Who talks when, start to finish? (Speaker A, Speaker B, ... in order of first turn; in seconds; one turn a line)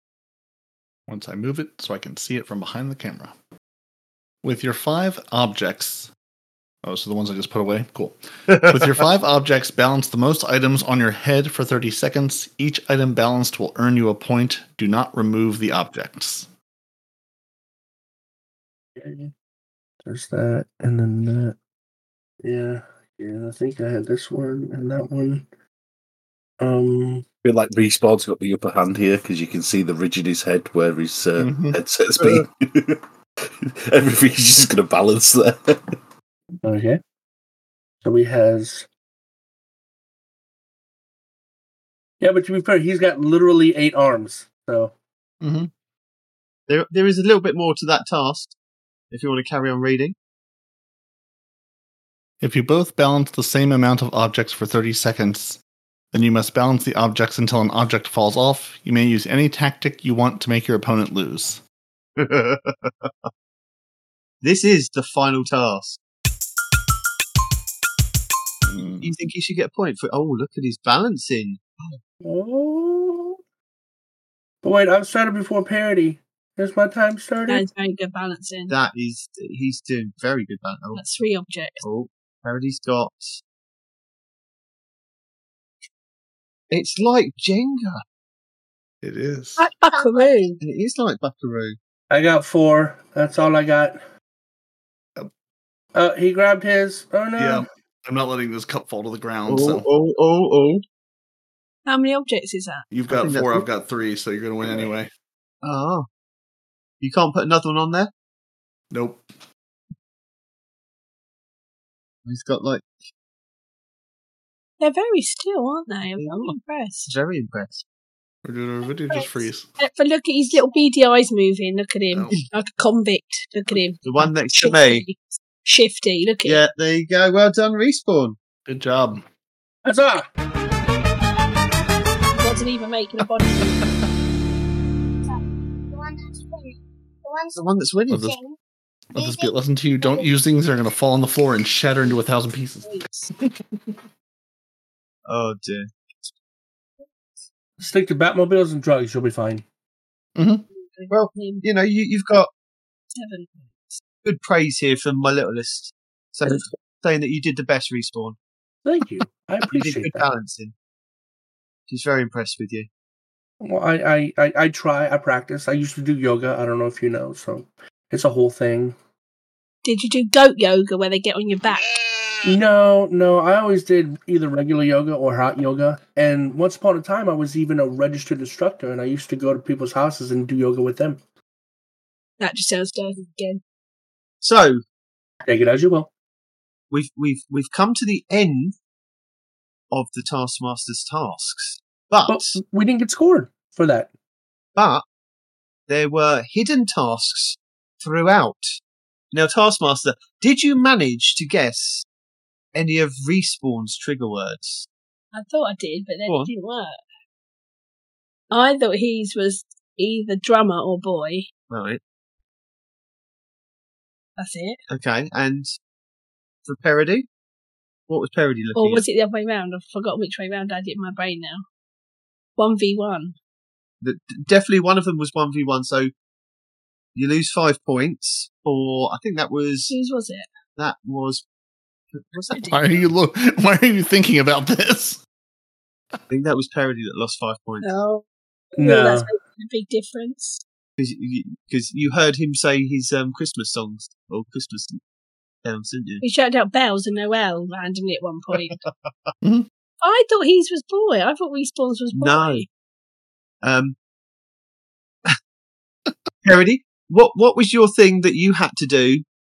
Speaker A: 1.1-3.3
Speaker A: 4.4-6.1
Speaker A: 6.8-16.5
Speaker B: 18.9-19.3
Speaker B: 20.0-21.6
Speaker B: 22.4-25.5
Speaker B: 26.6-27.2
Speaker C: 27.4-33.0
Speaker A: 31.4-31.8
Speaker C: 33.9-35.8
Speaker B: 36.6-37.0
Speaker B: 38.0-38.9
Speaker B: 42.2-44.9
Speaker A: 45.4-45.7
Speaker D: 46.7-48.5
Speaker D: 49.1-50.1
Speaker A: 52.4-55.6
Speaker A: 56.1-61.6
Speaker D: 62.2-63.3
Speaker D: 64.4-66.0
Speaker A: 68.6-69.1
Speaker D: 69.0-72.0
Speaker B: 72.2-73.4
Speaker B: 74.6-77.6
Speaker E: 77.5-78.7
Speaker D: 78.7-81.0
Speaker E: 80.9-81.8
Speaker D: 81.8-83.4
Speaker D: 86.7-88.0
Speaker A: 89.0-89.7
Speaker E: 89.6-90.6
Speaker F: 89.9-90.6
Speaker D: 90.6-91.8
Speaker B: 92.1-94.0
Speaker B: 95.9-97.7
Speaker A: 97.4-99.8
Speaker D: 99.5-100.8
Speaker E: 101.8-102.9
Speaker A: 102.9-105.1
Speaker D: 103.1-103.7
Speaker D: 105.6-106.1
Speaker D: 107.0-108.1
Speaker A: 108.9-109.2
Speaker D: 112.2-112.8
Speaker E: 114.8-117.1
Speaker D: 116.2-116.5
Speaker D: 117.1-117.8
Speaker A: 118.4-119.7
Speaker E: 119.1-126.6
Speaker A: 122.1-122.4
Speaker D: 124.0-125.0
Speaker D: 126.4-128.3
Speaker A: 128.7-129.2
Speaker B: 129.8-130.2
Speaker E: 132.3-133.8
Speaker F: 135.2-138.6
Speaker D: 137.5-138.3
Speaker A: 138.1-138.4
Speaker F: 139.1-140.3
Speaker A: 139.1-143.5
Speaker E: 142.8-143.3
Speaker D: 145.2-145.9
Speaker B: 147.8-149.6
Speaker A: 150.3-150.6
Speaker E: 150.7-151.6
Speaker D: 151.1-152.5
Speaker E: 153.2-154.0
Speaker D: 154.2-158.4
Speaker B: 158.8-160.3
Speaker D: 159.7-160.7
Speaker D: 161.9-162.9
Speaker B: 163.6-168.9
Speaker E: 169.8-171.9
Speaker B: 172.4-181.2
Speaker E: 182.4-183.6
Speaker D: 184.4-184.8
Speaker B: 185.4-186.1
Speaker D: 186.9-188.7
Speaker D: 189.9-192.6
Speaker B: 192.3-194.1
Speaker D: 194.8-195.0
Speaker D: 195.9-198.8
Speaker D: 199.3-202.1
Speaker D: 202.7-204.9
Speaker E: 205.3-207.0
Speaker E: 208.5-211.5
Speaker D: 211.7-212.0
Speaker E: 214.4-214.8
Speaker D: 214.9-215.7
Speaker D: 216.6-217.3
Speaker D: 218.1-219.0
Speaker E: 218.8-221.6
Speaker E: 222.6-223.3
Speaker D: 224.0-226.1
Speaker D: 227.1-229.9
Speaker E: 229.9-230.5
Speaker D: 230.8-231.4
Speaker D: 232.2-232.8
Speaker E: 232.5-232.9
Speaker A: 232.7-235.2
Speaker D: 236.3-237.9
Speaker E: 237.8-238.2
Speaker E: 238.7-240.6
Speaker B: 238.8-239.3
Speaker D: 241.0-245.0
Speaker D: 245.6-246.2
Speaker E: 246.2-248.8
Speaker A: 249.4-249.7
Speaker E: 250.0-252.7
Speaker D: 252.1-252.7
Speaker D: 253.6-253.9
Speaker D: 256.4-259.2